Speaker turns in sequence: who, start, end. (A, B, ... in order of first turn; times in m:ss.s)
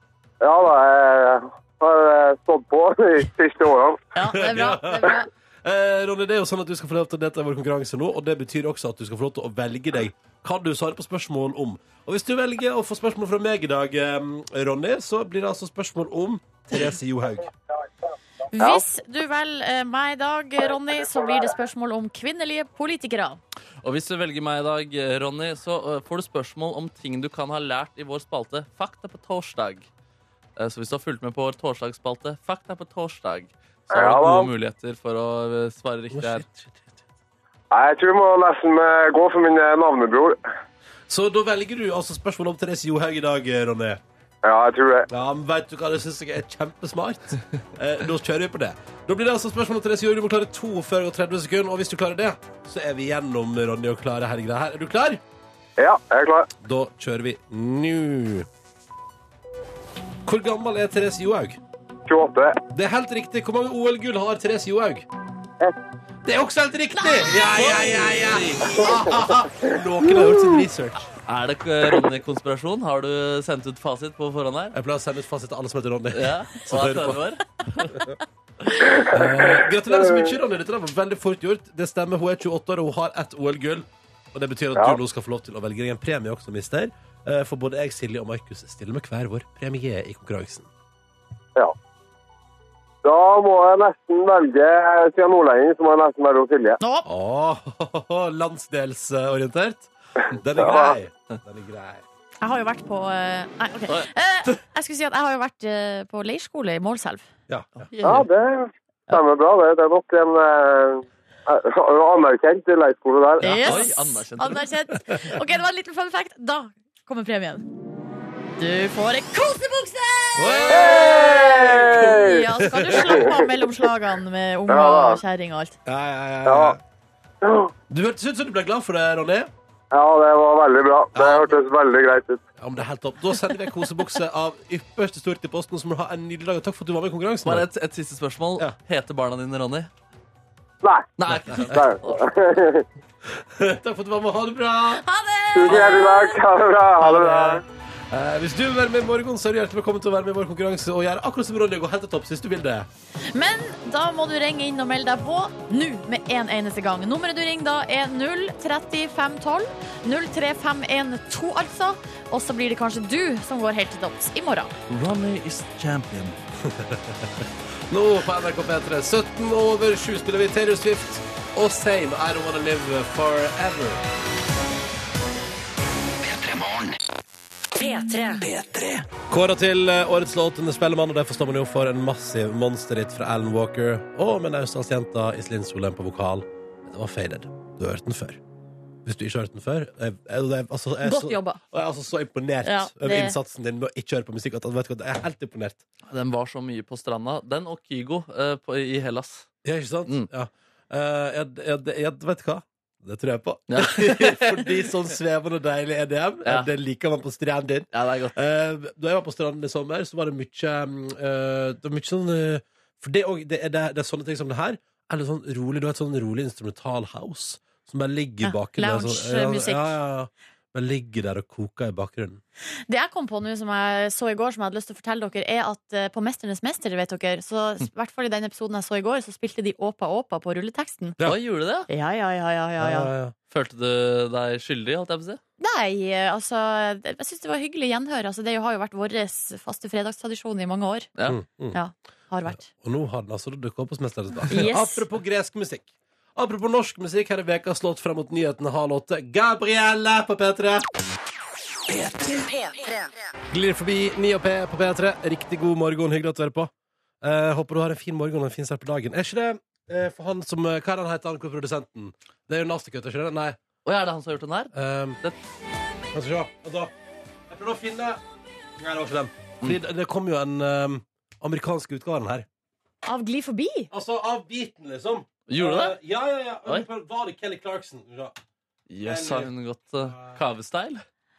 0:00.4-0:04.0 A
0:04.1-0:05.3 B
0:04.3-0:17.5 C
0:18.5-0:23.4 B
0:23.8-0:29.9 D
0:30.6-0:36.4 D
0:33.9-0:34.5 A
0:36.1-0:37.0 C
0:37.7-0:40.4 A
0:41.1-0:44.0 C
0:44.4-0:45.1 A
0:45.1-0:55.2 C
0:55.8-0:56.5 A
0:56.6-0:58.5 C
1:00.2-1:01.6 C
1:02.1-1:02.6 A
1:02.7-1:05.0 C
1:06.2-1:11.1 C
1:07.5-1:08.8 D
1:11.3-1:14.7 D
1:14.7-1:17.2 C
1:16.1-1:18.0 D
1:18.9-1:20.2 A
1:19.1-1:30.7 C
1:33.0-1:36.8 A
1:36.8-1:37.1 B
1:37.0-1:42.0 C
1:40.6-1:40.9 A
1:42.4-1:47.3 B
1:43.9-1:44.5 D
1:47.5-1:47.9 C
1:47.8-1:48.2 D
1:48.0-1:53.6 A
1:53.4-1:57.6 B
1:53.4-1:54.7 D
1:58.6-2:05.8 B
2:00.4-2:03.4 C
2:00.5-2:00.9 D
2:00.7-2:02.4 A
2:02.9-2:03.3 A
2:04.7-2:05.2 A
2:05.8-2:06.8 C
2:06.4-2:06.8 A
2:07.4-2:07.7 A
2:07.9-2:09.5 C
2:09.9-2:12.4 A
2:11.1-2:11.6 C
2:12.6-2:17.7 C
2:17.4-2:19.9 D
2:20.8-2:21.1 A
2:21.2-2:22.2 D
2:21.3-2:21.8 C
2:21.6-2:22.8 A
2:23.2-2:25.0 C
2:25.0-2:26.4 B
2:25.5-2:27.6 A
2:27.0-2:27.6 C
2:28.1-2:32.9 C
2:33.3-2:44.7 B
2:44.9-2:46.4 D
2:46.6-2:54.0 C
2:56.3-2:56.9 E
2:57.7-2:59.0 E
2:59.3-3:08.4 C
3:09.0-3:15.8 C
3:11.0-3:11.6 B
3:12.6-3:13.4 B
3:16.1-3:19.5 D
3:19.6-3:42.4 C
3:23.7-3:24.9 D
3:26.4-3:26.7 D
3:27.9-3:28.3 D
3:38.4-3:39.9 B
3:42.9-3:51.2 B
3:51.2-3:51.9 D
3:51.9-3:53.1 B
3:52.8-3:53.3 C
3:53.5-3:55.4 D
3:55.6-4:01.1 B
4:01.2-4:01.8 C
4:01.7-4:02.7 B
4:02.5-4:10.9 C
4:04.5-4:05.0 B
4:11.9-4:13.1 E
4:13.5-4:16.7 C
4:17.2-4:23.6 C
4:23.8-4:25.4 D
4:24.7-4:25.2 C
4:26.1-4:26.9 C
4:27.5-4:28.2 C
4:28.8-4:32.4 C
4:33.0-4:33.9 B
4:33.9-4:38.4 C
4:35.5-4:36.0 D
4:38.9-4:41.0 D
4:39.0-4:39.5 C
4:40.0-4:40.4 C